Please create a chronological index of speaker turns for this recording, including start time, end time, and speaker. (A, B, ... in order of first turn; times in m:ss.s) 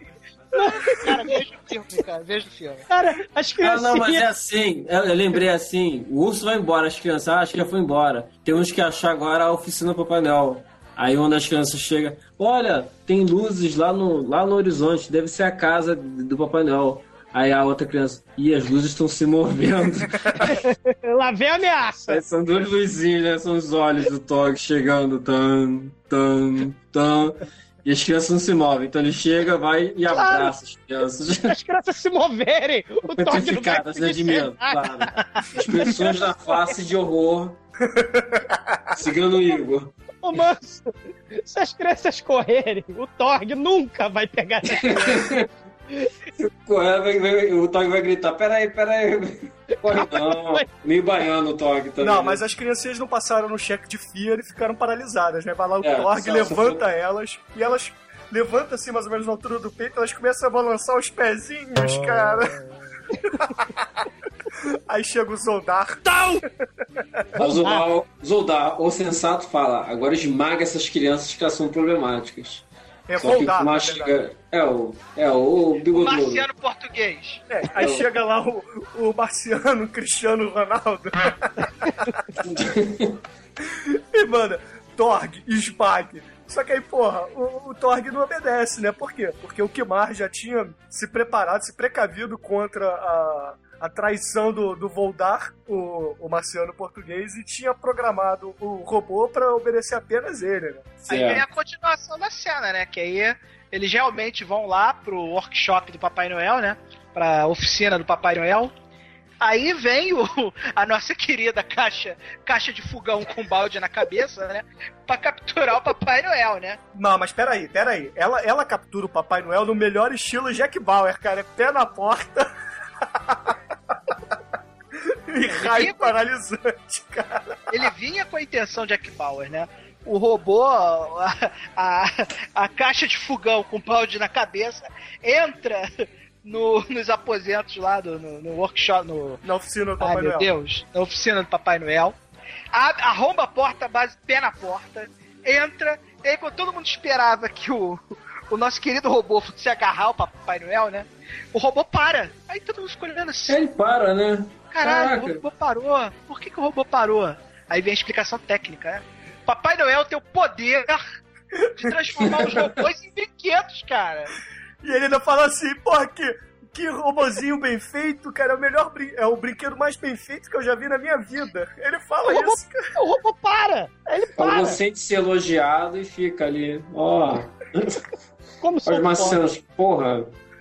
0:00.5-0:01.2 A
0:00.8-0:02.9 B
0:02.9-0:04.2 A
0:03.6-0:20.5 C
0:20.4-0:22.2 A
0:22.1-0:31.5 C
0:30.1-0:30.5 A
0:31.4-0:35.1 A
0:33.1-0:37.6 C
0:37.9-0:38.8 D
0:38.9-0:39.9 C
0:40.2-0:45.3 A
0:44.7-0:45.5 C
0:46.4-0:52.4 C
0:49.8-0:50.6 A
0:52.0-1:02.6 D
0:55.8-0:56.8 C
1:03.4-1:03.6 D
1:04.9-1:06.4 D
1:07.0-1:07.2 D
1:07.4-1:07.8 A
1:07.4-1:12.7 C
1:13.1-1:14.2 D
1:13.2-1:16.4 C
1:15.9-1:17.4 B
1:17.5-1:21.9 D
1:22.4-1:23.2 C
1:23.6-1:41.1 D
1:41.1-1:48.7 B
1:41.1-1:41.4 C
1:49.4-1:56.8 B
1:56.9-2:02.5 D
2:03.0-2:03.6 D
2:05.0-2:07.9 D
2:05.6-2:06.2 B
2:07.7-2:19.4 B
2:19.4-2:20.5 D
2:20.0-2:22.2 B
2:22.7-2:33.6 B
2:33.5-2:35.4 C
2:34.7-2:41.0 B
2:41.8-2:44.4 B
2:44.8-2:52.8 D
2:52.2-2:54.8 A
2:54.4-2:58.0 C
2:58.6-2:59.4 A
2:58.9-3:00.3 C